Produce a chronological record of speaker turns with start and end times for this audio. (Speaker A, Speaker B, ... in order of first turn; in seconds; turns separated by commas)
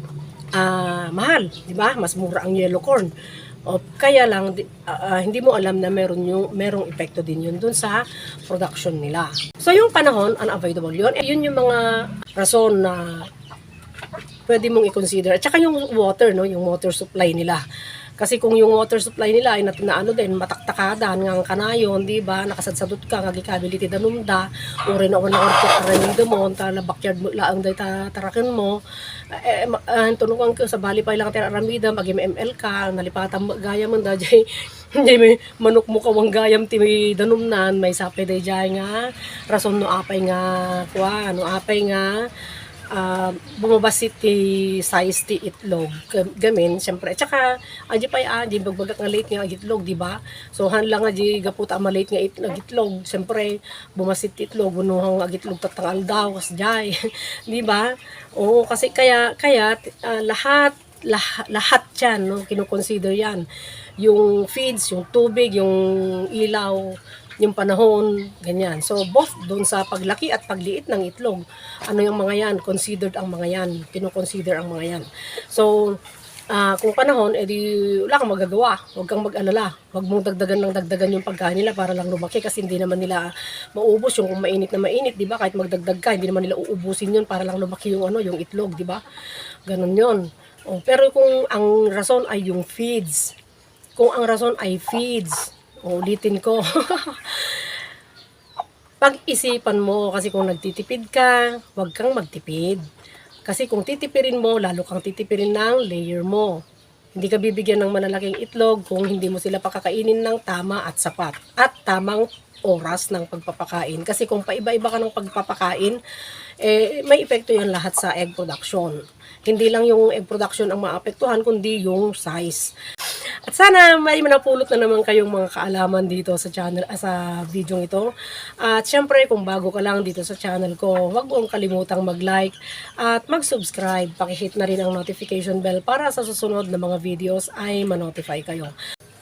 Speaker A: 0.5-3.1, Speaker A: 3.6-13.3, Speaker A: 14.5-17.6, Speaker A: 18.2-28.8, Speaker A: 29.3-42.2, Speaker A: 42.9-63.5, Speaker A: 64.0-76.0, Speaker A: 76.5-89.0, Speaker A: 89.7-93.3, Speaker A: 94.0-97.8, Speaker A: 99.0-102.8, Speaker A: 103.5-106.6, Speaker A: 107.2-116.0, Speaker A: 116.6-122.7, Speaker A: 123.5-138.7